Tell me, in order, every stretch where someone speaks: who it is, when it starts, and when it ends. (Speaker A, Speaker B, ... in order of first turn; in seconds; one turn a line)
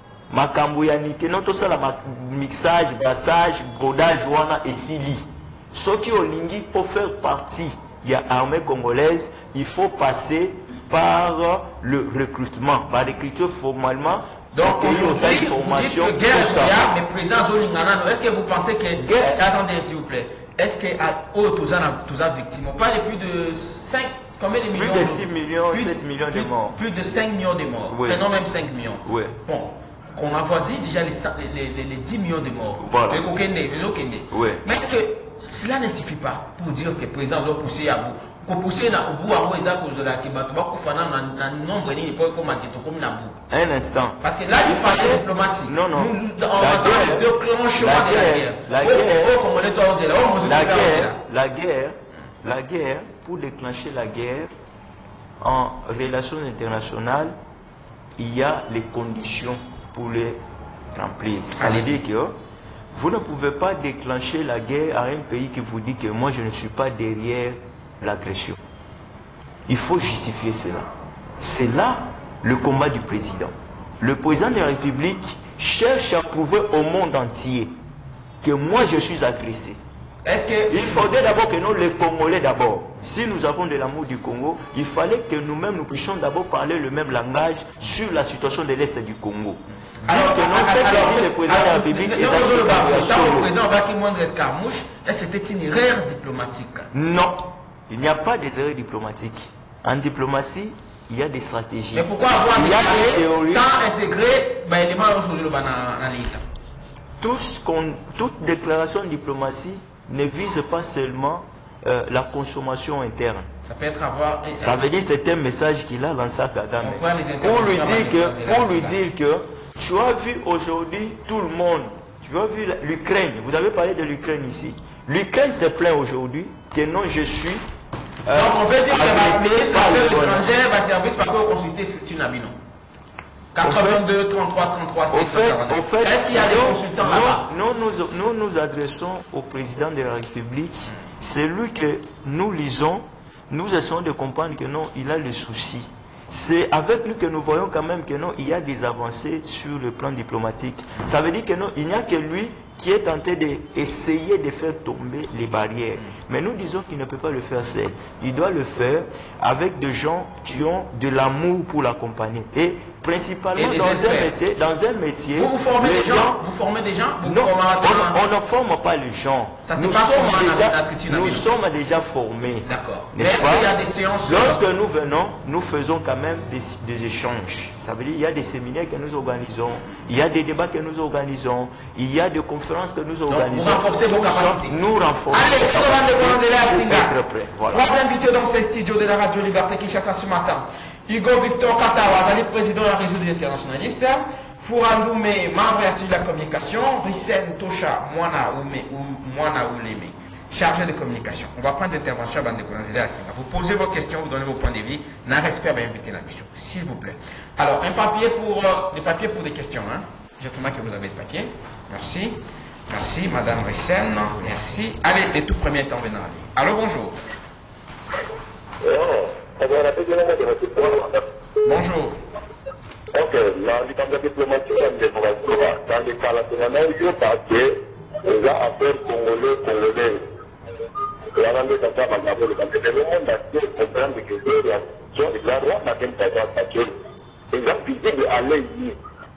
Speaker A: 0.3-16.9
Speaker B: 14.5-43.4
Speaker A: 19.0-19.4
Speaker A: 24.7-26.8
Speaker A: 27.9-28.3
Speaker A: 29.1-29.4
Speaker A: 32.8-33.3
Speaker A: 34.3-34.6
Speaker A: 43.5-49.4
Speaker B: 44.2-51.2
Speaker A: 50.4-54.5
Speaker A: 55.4-57.4
Speaker A: 58.2-60.4
Speaker A: 60.9-62.4
Speaker B: 61.6-62.0
Speaker A: 62.9-68.6
Speaker A: 69.7-77.8
Speaker A: 78.4-79.8
Speaker B: 80.2-81.1
Speaker A: 80.7-93.5
Speaker B: 90.0-96.9
Speaker A: 96.9-103.7
Speaker B: 101.9-106.4
Speaker A: 107.2-113.5
Speaker B: 113.6-114.9
Speaker A: 114.5-127.7
Speaker B: 116.8-119.0
Speaker A: 128.2-130.4
Speaker B: 128.3-132.6
Speaker B: 133.5-137.4
Speaker A: 133.6-134.0
Speaker A: 135.1-166.4
Speaker B: 163.6-164.3
Speaker B: 165.3-168.2
Speaker A: 167.2-173.7
Speaker B: 169.7-171.5
Speaker B: 172.7-174.6
Speaker A: 174.2-187.9
Speaker B: 183.3-184.8
Speaker B: 185.3-187.2
Speaker B: 187.7-217.2
Speaker C: 218.8-221.2
Speaker B: 221.6-222.2
Speaker C: 223.1-230.2
Speaker C: 231.3-236.9
Speaker C: 237.5-239.0